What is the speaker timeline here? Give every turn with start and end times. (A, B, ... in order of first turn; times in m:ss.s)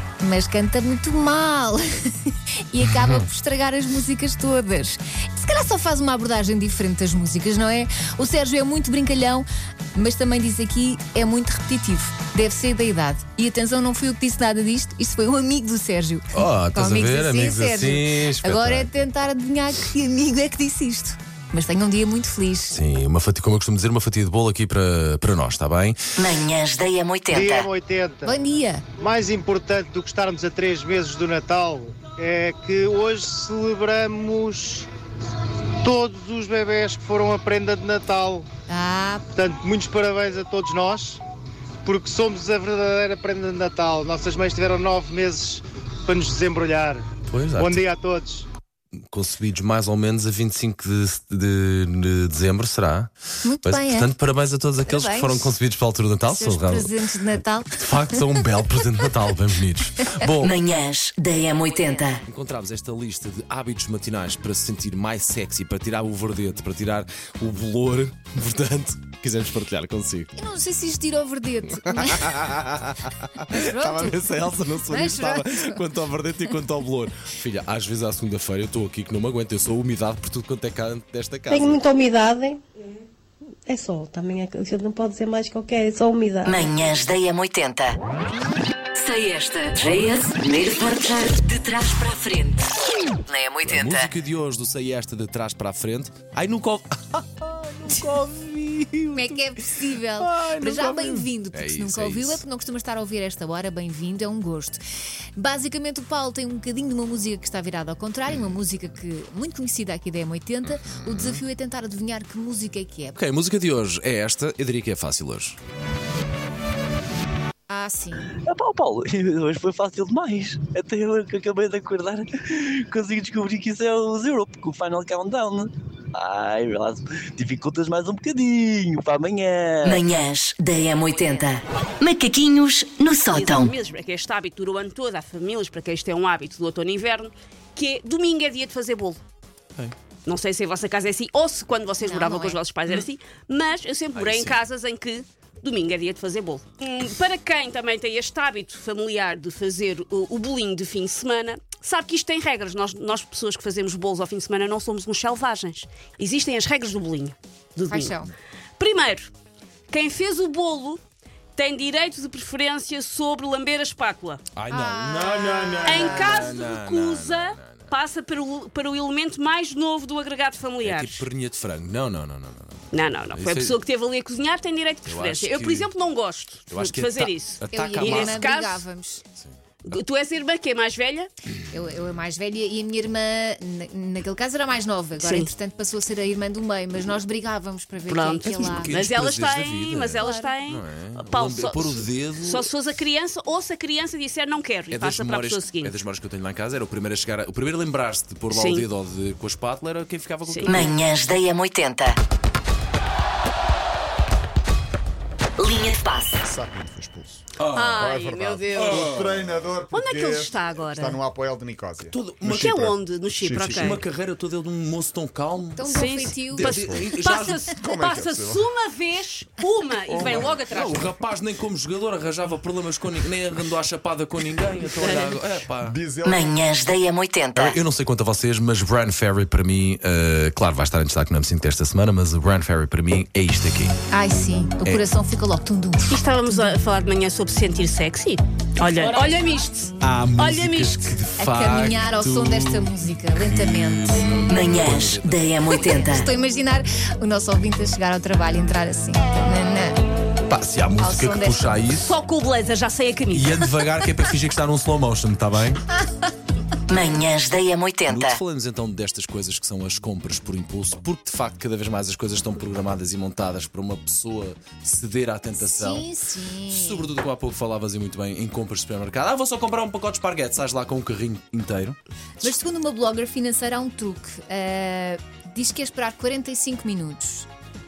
0:00.2-0:22.8 A
0:02.8-0:03.3 B
0:16.3-0:18.9 B
0:22.7-0:26.3 B
0:26.2-0:27.7 C
0:27.3-0:28.4 D
0:28.2-0:28.8 A
0:29.0-0:34.9 D
0:35.8-0:38.5 D
0:38.7-0:39.3 A
0:39.3-0:41.2 D
0:41.8-0:47.0 D
0:47.3-0:47.8 B
0:47.6-0:48.5 D
0:49.1-0:53.1 B
0:53.4-0:54.1 A
0:53.6-0:56.9 B
0:54.9-0:55.6 A
0:56.3-0:58.4 A
0:57.7-1:00.5 B
1:00.4-1:02.2 C
1:02.3-1:10.3 B
1:10.4-1:12.3 A
1:11.8-1:21.9 B
1:13.5-1:14.2 A
1:14.9-1:15.8 A
1:21.5-1:22.6 E
1:23.7-1:26.7 E
1:26.5-1:28.0 C
1:29.0-1:32.7 C
1:33.3-1:34.1 C
1:33.6-1:39.4 B
1:39.1-1:44.8 A
1:40.2-1:42.4 B
1:45.4-1:53.2 A
1:48.3-1:48.6 B
1:50.6-1:51.4 B
1:53.2-1:55.6 B
1:57.7-1:58.3 A
1:58.4-2:10.1 F
2:09.8-2:13.7 C
2:13.3-2:19.2 G
2:20.3-2:38.2 G
2:22.0-2:22.6 A
2:24.1-2:24.6 B
2:37.9-2:38.3 A
2:38.8-2:39.3 G
2:39.9-2:41.0 G
2:41.6-2:44.4 G
2:44.6-2:47.9 B
2:44.7-2:46.6 A
2:45.8-2:51.2 G
2:50.8-2:53.8 B
2:52.9-2:58.8 G
2:55.0-2:55.9 B
2:56.7-2:58.4 B
2:57.7-2:59.2 A
2:59.4-3:00.0 B
2:59.9-3:01.3 G
3:01.7-3:09.0 A
3:05.2-3:05.5 G
3:08.1-3:16.0 G
3:08.5-3:12.7 B
3:10.2-3:10.6 A
3:14.9-3:21.0 B
3:18.5-3:18.9 G
3:20.5-3:20.9 G
3:20.7-3:22.2 C
3:25.6-3:26.4 C
3:26.4-3:27.4 H
3:27.6-3:28.1 B
3:27.7-3:29.2 G
3:28.0-3:34.0 H
3:28.7-3:29.7 B
3:29.9-3:31.2 G
3:32.1-3:32.7 B
3:32.5-3:34.0 G
3:33.6-3:37.7 B
3:35.8-3:36.8 A
3:35.9-3:41.2 G
3:36.6-3:38.7 H
3:40.1-3:40.7 H
3:40.6-3:46.0 B
3:45.0-3:45.5 G
3:45.8-3:46.7 H
3:46.2-3:47.8 C
3:47.6-3:54.0 B
3:54.1-3:56.8 A
3:56.1-4:01.2 G
4:00.0-4:05.7 B
4:01.4-4:04.3 A
4:04.5-4:06.3 C
4:05.8-4:10.0 A
4:10.5-4:12.1 B
4:11.0-4:11.9 A
4:12.0-4:13.6 G
4:13.3-4:15.8 B
4:16.9-4:18.4 C
4:18.1-4:26.1 B
4:25.5-4:27.1 A
4:26.7-4:32.0 B
4:32.4-4:37.5 A